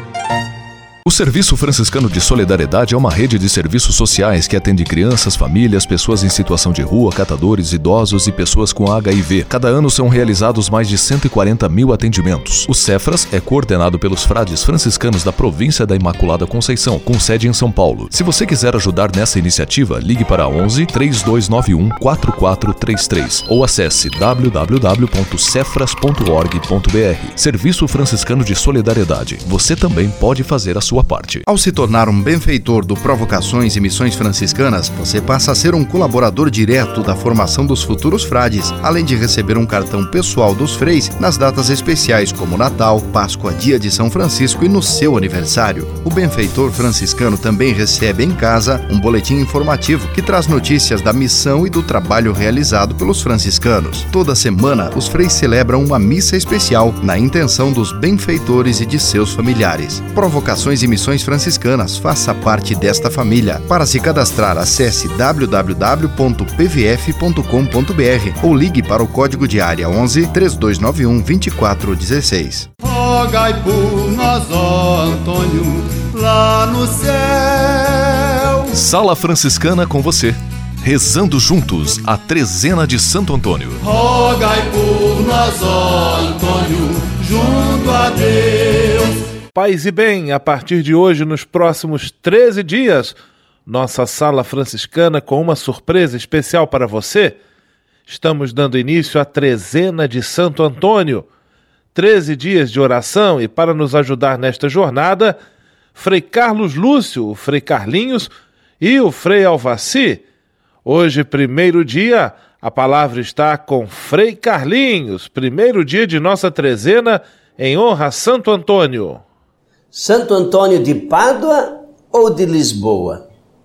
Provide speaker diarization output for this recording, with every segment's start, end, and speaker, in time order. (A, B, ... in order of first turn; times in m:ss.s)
0:01.0-0:31.4 A
0:31.4-1:12.7 B
1:12.8-1:18.6 C
1:18.7-1:23.8 A
1:23.8-1:29.2 C
1:29.5-1:37.4 D
1:38.1-1:41.2 D
1:41.9-1:45.4 D
1:46.0-1:50.2 D
1:50.8-1:59.2 D
1:59.9-2:03.2 E